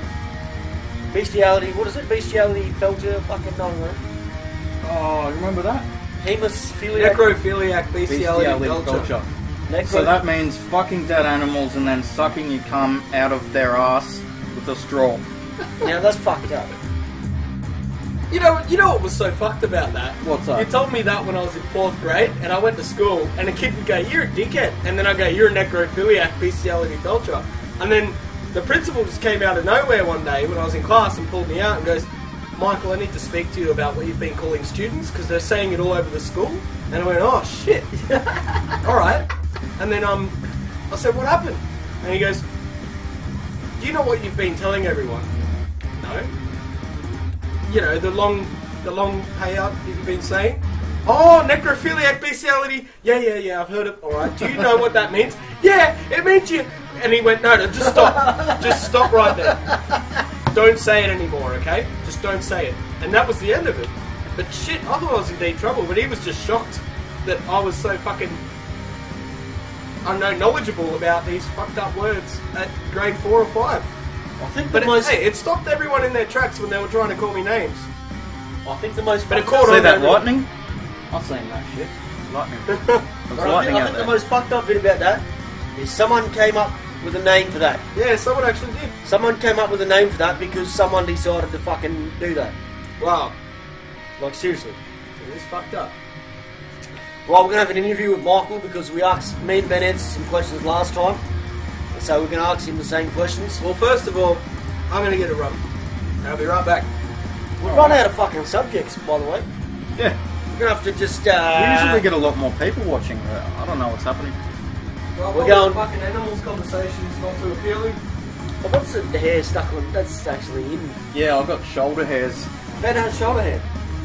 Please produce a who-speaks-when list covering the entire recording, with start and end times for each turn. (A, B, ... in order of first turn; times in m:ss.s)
0:01.1-0:04.0 A
0:04.8-0:05.9 B
0:06.2-0:07.3 A
0:06.9-0:09.1 C
0:08.1-0:09.3 B
0:09.7-0:10.2 A
0:09.8-0:15.2 B
0:15.8-0:16.7 A
0:18.3-0:39.3 C
0:20.2-0:20.7 B
0:39.8-0:40.4 C
0:40.9-0:42.4 C
0:43.8-0:45.3 C
0:46.0-0:46.3 C
0:47.7-0:59.6 C
0:58.2-0:59.5 A
1:00.5-1:08.4 C
1:10.0-1:13.9 C
1:14.4-1:15.2 A
1:14.7-1:17.9 C
1:18.6-1:20.2 A
1:19.3-1:20.2 C
1:19.6-1:20.5 B
1:21.1-1:24.2 B
1:22.7-1:23.0 C
1:23.3-1:27.8 A
1:28.0-1:29.0 C
1:29.0-1:32.6 A
1:33.0-1:33.3 C
1:34.2-1:34.8 A
1:35.2-1:35.9 C
1:37.3-1:41.2 A
1:41.9-1:43.6 A
1:43.6-1:45.6 C
1:46.2-1:46.9 C
1:47.6-1:49.5 A
1:47.6-1:48.0 B
1:50.5-1:52.0 A
1:51.6-1:54.4 B
1:55.2-1:58.0 C
1:55.3-1:55.8 A
1:58.6-2:01.0 A
2:01.1-2:02.5 B
2:02.8-2:03.6 A